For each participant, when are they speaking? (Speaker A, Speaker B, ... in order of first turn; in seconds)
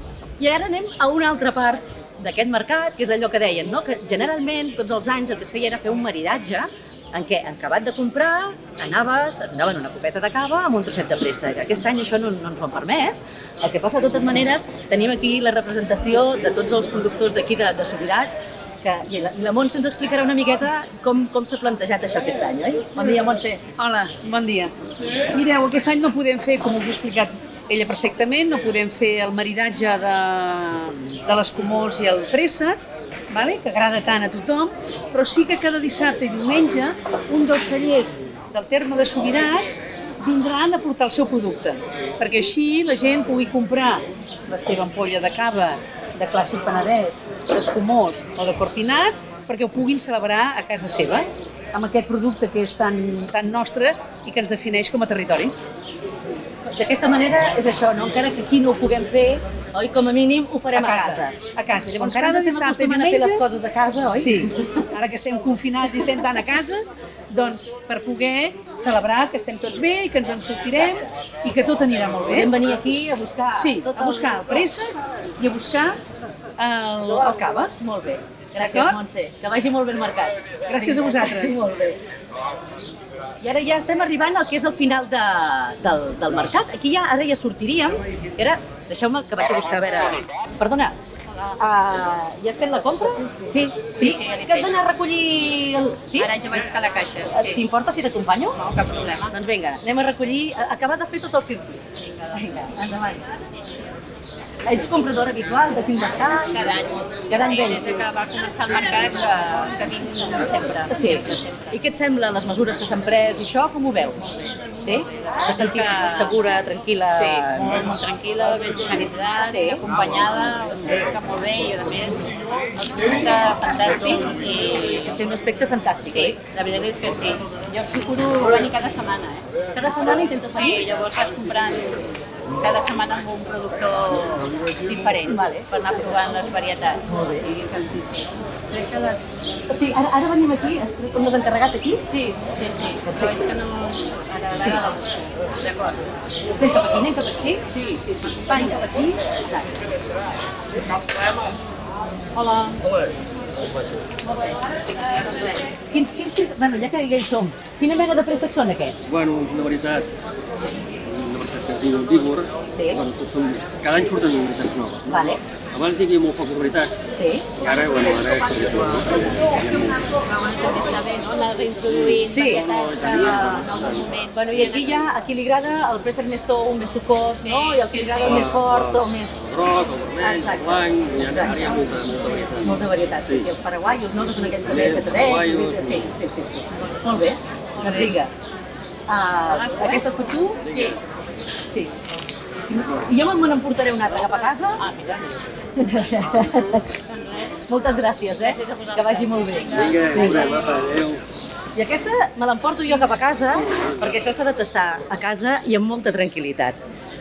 Speaker A: 0.4-23.6, 56.6-61.4, 62.0-64.9, 70.7-71.1, 72.3-74.7, 77.1-82.0, 83.4-91.0, 91.5-96.3, 97.3-98.6, 99.3-103.3, 104.7-106.7, 107.3-108.0, 110.9-117.8, 119.4-119.8, 124.8-126.4, 129.8-130.8, 134.9-136.2, 137.1-137.5, 139.7-142.0, 143.1-143.4, 144.6-144.8, 146.6-147.7, 148.4-149.8, 155.4-159.1, 162.7-163.0, 165.1-165.4, 167.1-167.4, 172.3-172.7, 174.3-179.5, 180.2-181.8, 182.6-188.3, 189.1-190.6, 192.7-194.9, 195.8-196.9, 197.7-200.6, 201.8-206.8
Speaker B: 23.8-24.7, 25.3-32.8, 33.3-55.5, 60.7-63.4, 64.1-72.5, 73.5-74.9, 75.4-76.0, 76.6-77.7, 78.6-79.0, 80.7-81.6
Speaker C: 93.8-94.8, 96.2-97.6, 98.6-99.3, 106.4-111.8, 115.4-116.4, 117.1-125.2, 126.1-129.5, 130.0-132.1, 132.6-139.2, 142.1-146.0, 147.7-148.8, 152.3-152.8, 155.2-155.5, 169.5-175.1, 177.4-178.6, 187.8-188.1, 189.5-191.0, 194.8-195.3, 198.3-200.7
Speaker D: 152.8-154.1, 159.1-160.2, 160.9-170.1, 171.8-174.6, 178.2-183.5, 184.7-186.1, 190.6-191.0, 199.8-201.2